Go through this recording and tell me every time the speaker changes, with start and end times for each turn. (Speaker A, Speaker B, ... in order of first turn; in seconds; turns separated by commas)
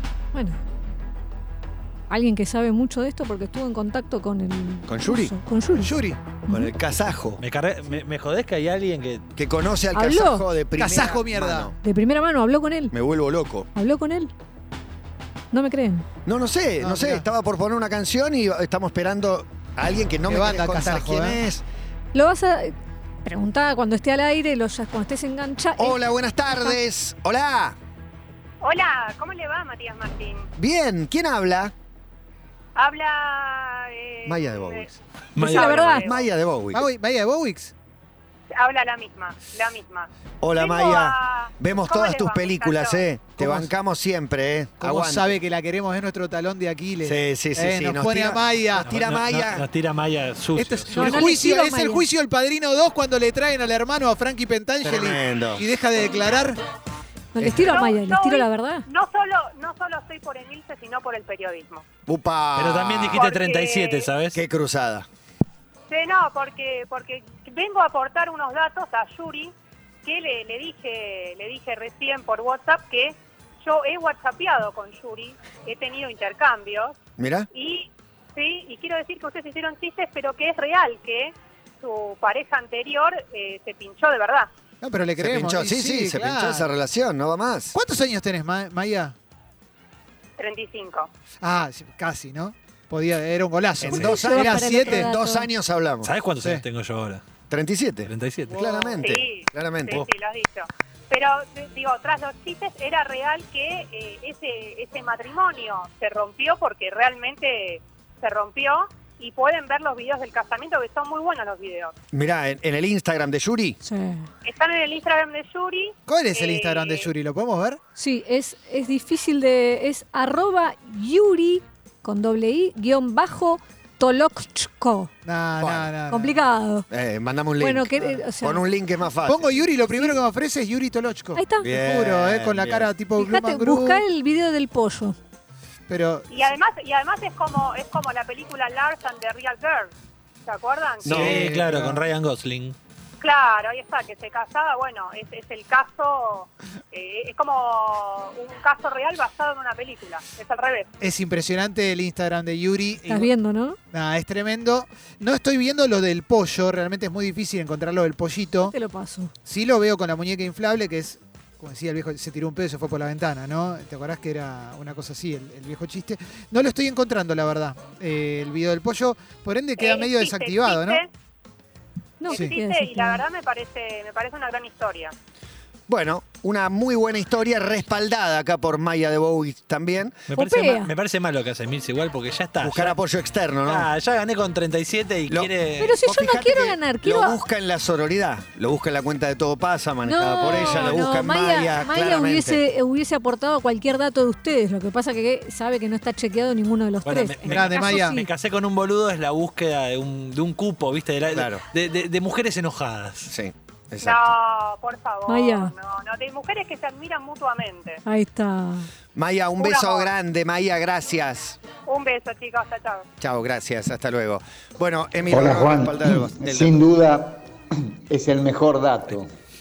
Speaker A: 0.3-0.6, Speaker A: 2.1-5.9, Speaker B: 4.9-5.3, Speaker C: 5.8-6.2, Speaker B: 6.5-7.4, Speaker D: 7.4-9.2, Speaker B: 9.4-11.8, Speaker A: 9.9-10.5, Speaker C: 10.8-11.7, Speaker A: 11.8-12.9, Speaker B: 12.9-13.7, Speaker A: 13.8-14.3, Speaker A: 15.5-16.1, Speaker B: 16.3-21.6, Speaker C: 16.8-17.2, Speaker C: 20.3-21.4, Speaker A: 22.1-26.8, Speaker B: 25.8-27.8, Speaker E: 28.6-30.5, Speaker B: 30.6-31.7, Speaker E: 32.8-36.3, Speaker B: 34.2-34.9, Speaker D: 35.4-35.8, Speaker A: 35.4-36.1, Speaker B: 35.6-36.9, Speaker C: 36.7-37.7, Speaker E: 38.6-43.1, Speaker B: 40.4-45.3, Speaker C: 43.4-43.7, Speaker C: 44.8-48.9, Speaker B: 47.0-49.7, Speaker D: 48.9-51.3, Speaker C: 50.6-56.6, Speaker A: 50.9-52.1, Speaker B: 54.8-55.6, Speaker A: 57.4-58.9, Speaker B: 57.4-57.7, Speaker E: 57.6-61.9, Speaker B: 62.1-63.3, Speaker D: 62.6-64.4, Speaker E: 63.1-64.1, Speaker B: 64.3-65.1, Speaker E: 65.9-69.5, Speaker E: 70.0-77.0, Speaker B: 77.2-77.5, Speaker E: 77.5-84.5, Speaker C: 84.8-86.7, Speaker B: 85.2-87.8, Speaker C: 87.7-89.2, Speaker E: 90.4-91.1, Speaker C: 91.4-95.1, Speaker B: 93.8-96.1, Speaker A: 93.9-95.5, Speaker D: 96.0-97.2, Speaker B: 97.5-100.0, Speaker D: 98.0-98.5, Speaker C: 98.5-99.0, Speaker E: 99.0-111.9, Speaker B: 112.1-113.8, Speaker A: 113.8-114.3, Speaker E: 114.4-117.1, Speaker C: 116.1-117.8, Speaker A: 118.0-125.1, Speaker C: 125.3-126.4, Speaker B: 125.6-125.9, Speaker A: 126.1-126.9, Speaker B: 126.9-129.6, Speaker A: 127.6-128.7, Speaker C: 129.2-134.0, Speaker A: 131.4-131.8, Speaker B: 131.6-132.9, Speaker A: 133.2-135.2, Speaker C: 135.9-136.5, Speaker E: 136.3-139.9, Speaker E: 140.4-141.5, Speaker C: 141.0-142.0, Speaker D: 141.0-142.8, Speaker E: 143.2-150.9, Speaker C: 151.0-153.3, Speaker A: 153.1-153.8, Speaker C: 153.9-158.7, Speaker A: 158.6-159.3, Speaker C: 159.5-171.0, Speaker E: 169.8-171.1, Speaker A: 172.2-173.2, Speaker E: 172.3-175.1, Speaker C: 172.3-172.5, Speaker B: 175.9-180.2, Speaker D: 180.3-183.0, Speaker A: 180.3-180.9, Speaker B: 182.6-183.9, Speaker D: 183.7-186.0, Speaker A: 185.8-187.4, Speaker B: 186.0-192.6, Speaker A: 190.1-198.3, Speaker D: 190.5-191.0, Speaker D: 197.1-203.3, Speaker C: 197.5-198.2, Speaker B: 201.3-201.6, Speaker B: 203.3-204.3, Speaker E: 204.0-208.0, Speaker A: 205.3-205.7, Speaker A: 208.1-208.9, Speaker B: 209.2-211.6, Speaker E: 209.6-210.1, Speaker E: 211.8-213.1, Speaker B: 213.2-216.8, Speaker F: 215.3-217.4, Speaker F: 218.1-219.3